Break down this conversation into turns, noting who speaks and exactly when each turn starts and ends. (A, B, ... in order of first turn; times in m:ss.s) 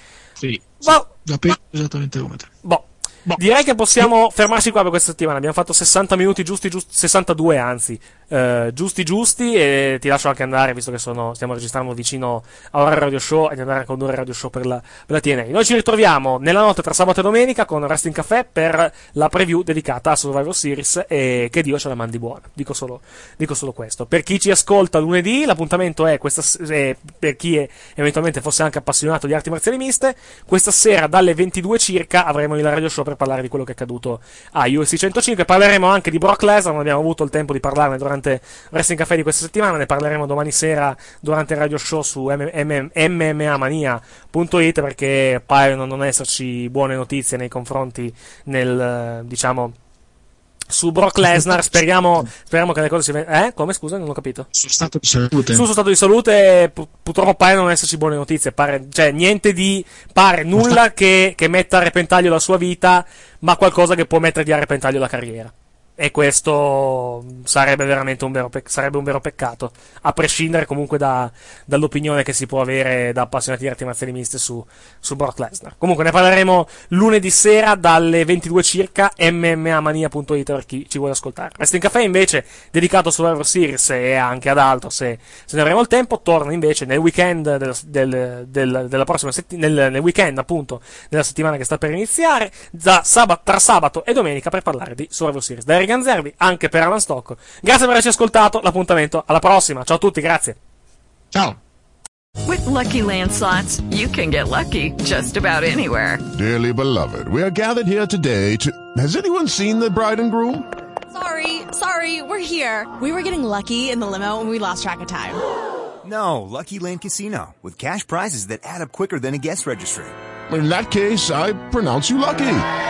0:00.4-0:02.5 A
0:00.8-0:01.1 B
0:02.6-0:49.8 B
0:50.7-0:54.5 B
0:51.2-0:52.2 A
0:54.5-0:55.7 A
0:55.5-1:40.6 B
1:00.5-1:00.8 A
1:41.3-1:41.6 A
1:42.5-1:46.2 C
1:46.3-1:50.7 D
1:51.1-1:55.4 E
1:56.0-2:00.1 F
2:00.5-2:02.7 D